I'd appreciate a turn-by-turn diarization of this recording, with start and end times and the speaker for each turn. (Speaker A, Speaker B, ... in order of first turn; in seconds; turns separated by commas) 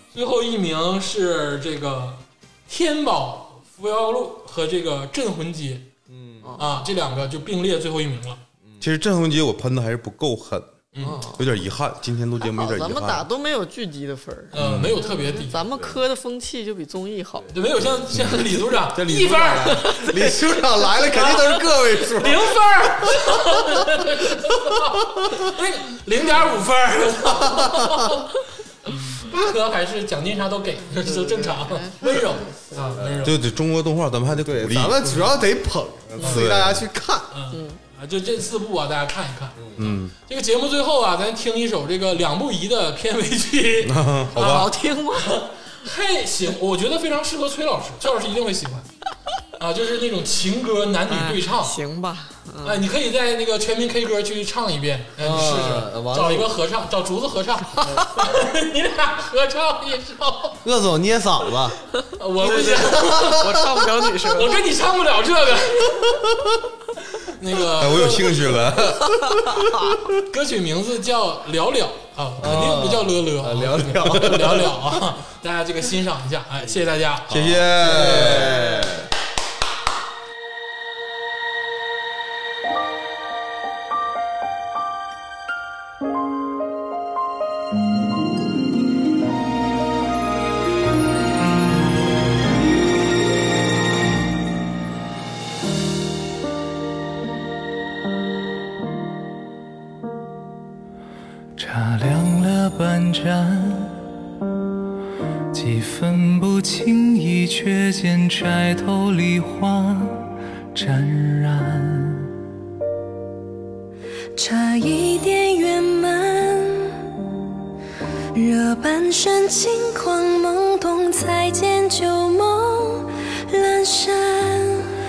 Speaker A: 0.1-5.9, Speaker B: 6.1-6.5, Speaker C: 6.4-6.7, Speaker A: 6.6-8.4, Speaker D: 8.8-10.7, Speaker A: 10.9-11.2, Speaker C: 11.0-11.4, Speaker D: 11.3-13.2, Speaker C: 12.4-17.5, Speaker A: 14.5-15.6, Speaker D: 14.5-15.0, Speaker B: 15.7-16.0, Speaker B: 17.4-22.6, Speaker A: 17.5-33.4, Speaker C: 19.7-20.2, Speaker B: 27.3-28.1, Speaker C: 30.8-33.0, Speaker B: 32.9-33.3, Speaker D: 33.2-35.1, Speaker B: 34.3-37.3, Speaker A: 35.0-35.4, Speaker D: 36.2-36.9, Speaker A: 37.3-48.9, Speaker C: 37.5-37.8, Speaker B: 39.6-39.9, Speaker D: 39.8-40.1, Speaker D: 43.8-44.7, Speaker C: 44.3-45.5, Speaker A: 49.6-51.8, Speaker C: 51.1-52.8, Speaker A: 52.6-60.6, Speaker B: 55.2-56.5, Speaker C: 57.8-58.2, Speaker B: 60.6-61.8, Speaker A: 62.1-63.7, Speaker C: 62.4-64.6, Speaker A: 64.2-66.1, Speaker A: 67.2-68.8, Speaker D: 67.7-69.8, Speaker C: 69.4-70.0, Speaker A: 70.2-77.3, Speaker B: 72.4-74.9, Speaker B: 77.3-79.1, Speaker D: 77.3-78.6, Speaker E: 101.5-104.0, Speaker E: 105.5-112.3, Speaker F: 114.4-117.0, Speaker F: 118.3-124.9